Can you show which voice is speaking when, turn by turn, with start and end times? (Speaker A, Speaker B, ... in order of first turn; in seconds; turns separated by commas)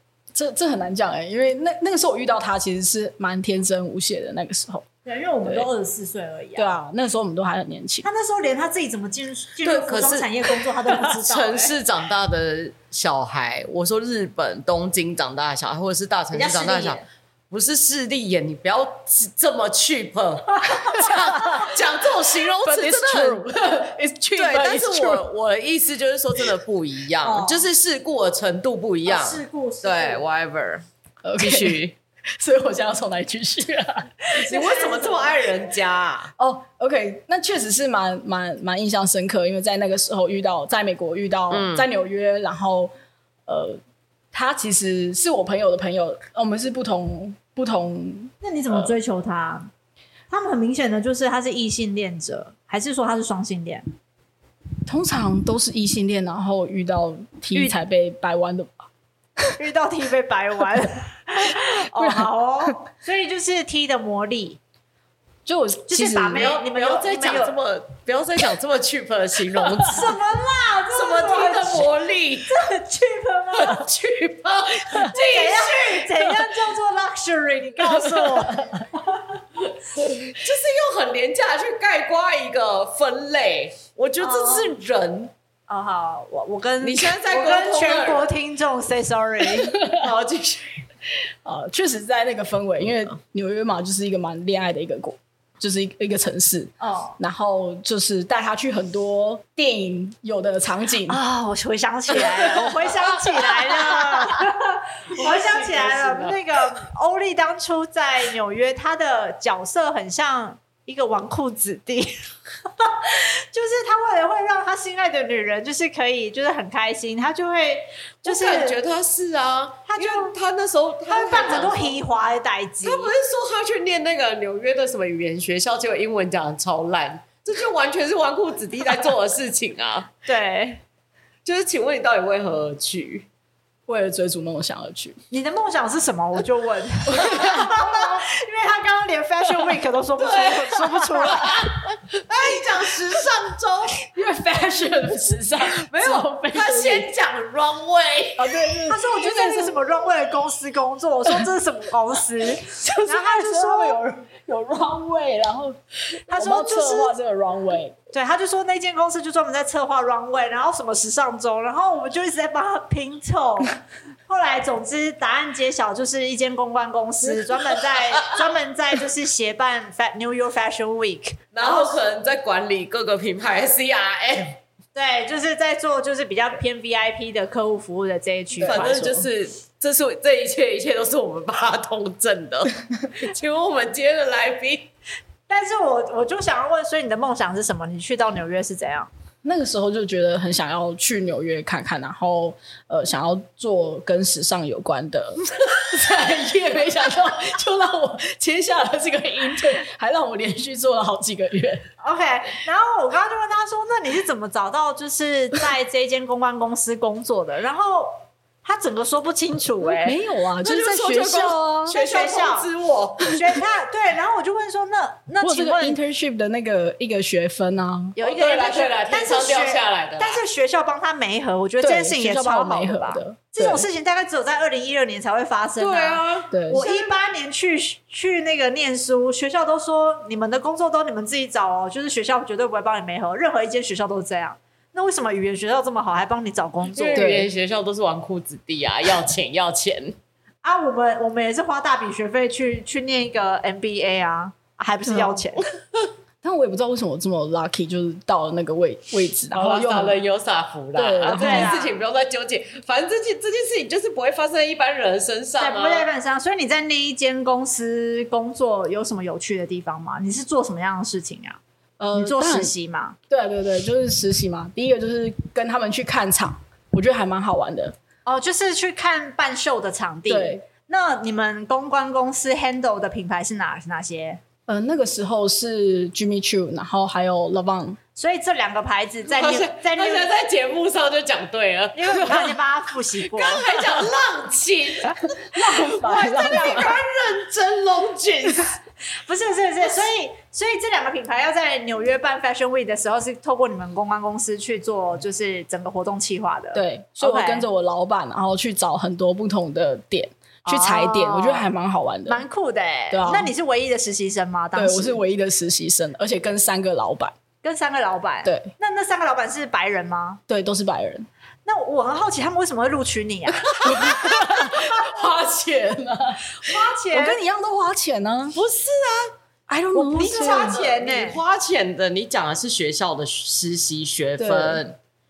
Speaker A: 0.3-4.9, Speaker B: 5.0-6.7, Speaker A: 6.6-8.1, Speaker B: 8.0-11.8, Speaker C: 9.6-17.0, Speaker B: 16.3-17.1, Speaker C: 17.5-23.5, Speaker A: 21.0-21.7, Speaker A: 22.6-25.3, Speaker C: 24.4-30.8, Speaker B: 27.2-27.7, Speaker B: 29.1-30.2, Speaker A: 31.2-31.8, Speaker C: 31.4-31.9, Speaker A: 32.4-34.1, Speaker B: 34.3-35.5, Speaker C: 34.5-36.3, Speaker A: 36.4-42.9, Speaker C: 41.5-41.9, Speaker A: 43.5-43.8, Speaker A: 44.3-48.3, Speaker B: 48.4-49.7, Speaker B: 50.3-53.8, Speaker A: 54.9-58.9, Speaker B: 59.6-64.6, Speaker A: 62.0-62.7, Speaker A: 65.5-66.5, Speaker B: 65.9-67.5, Speaker C: 66.3-70.2, Speaker A: 69.7-69.9, Speaker B: 69.9-71.9, Speaker C: 70.9-72.5, Speaker B: 72.5-73.9, Speaker C: 73.5-76.5, Speaker B: 75.0-79.4, Speaker A: 78.2-78.7, Speaker C: 80.0-85.3, Speaker B: 84.2-84.8, Speaker B: 85.7-89.8, Speaker C: 86.8-88.3, Speaker A: 89.7-90.1, Speaker C: 89.9-90.8, Speaker A: 91.4-101.2, Speaker B: 96.8-97.2, Speaker B: 101.1-112.1, Speaker C: 103.6-104.4, Speaker C: 105.2-106.4, Speaker B: 112.7-118.8, Speaker C: 118.2-121.9, Speaker B: 119.9-120.3, Speaker B: 121.1-123.1, Speaker C: 122.8-130.1, Speaker B: 130.3-130.8, Speaker C: 131.4-133.3, Speaker A: 133.9-135.2, Speaker B: 135.3-141.7, Speaker A: 137.1-138.0, Speaker C: 140.2-144.1, Speaker A: 144.1-147.1, Speaker C: 145.7-148.6, Speaker A: 148.4-149.8, Speaker B: 148.9-154.0, Speaker A: 152.5-158.0, Speaker B: 156.3-157.2, Speaker B: 158.1-172.0, Speaker C: 171.5-174.6, Speaker B: 174.9-179.0, Speaker A: 178.6-179.3, Speaker C: 178.6-184.9, Speaker B: 185.5-189.1, Speaker A: 189.4-201.9, Speaker B: 202.0-210.2, Speaker A: 209.9-212.0, Speaker C: 210.6-213.4, Speaker B: 211.9-212.7, Speaker B: 213.3-216.0, Speaker A: 215.4-218.2, Speaker B: 218.2-237.3, Speaker C: 218.2-220.4, Speaker A: 221.8-223.9, Speaker C: 225.8-226.5, Speaker A: 226.5-226.9, Speaker C: 236.9-240.2, Speaker A: 237.1-237.5, Speaker B: 240.6-245.7, Speaker A: 245.1-245.4, Speaker A: 246.4-250.2, Speaker C: 249.5-256.1, Speaker A: 250.9-251.8, Speaker B: 251.3-252.0, Speaker B: 255.6-261.6, Speaker A: 262.0-262.7, Speaker B: 262.1-263.2, Speaker A: 263.3-267.9, Speaker B: 268.3-274.4, Speaker A: 270.3-270.6, Speaker A: 274.7-278.0, Speaker B: 278.2-280.3, Speaker C: 279.3-282.6, Speaker B: 281.9-283.6, Speaker C: 283.3-288.8, Speaker A: 285.5-287.0, Speaker B: 286.0-287.1, Speaker B: 289.2-297.7, Speaker A: 296.7-302.4, Speaker B: 300.6-301.7, Speaker B: 302.3-305.2, Speaker A: 303.1-303.5, Speaker A: 304.8-307.3, Speaker B: 307.6-310.4, Speaker A: 308.4-308.7, Speaker A: 310.5-311.3, Speaker B: 311.7-314.8, Speaker A: 313.8-318.6, Speaker B: 316.6-317.4, Speaker C: 318.6-319.3, Speaker A: 319.7-320.8, Speaker C: 319.9-325.0, Speaker B: 320.1-321.4, Speaker A: 324.4-324.8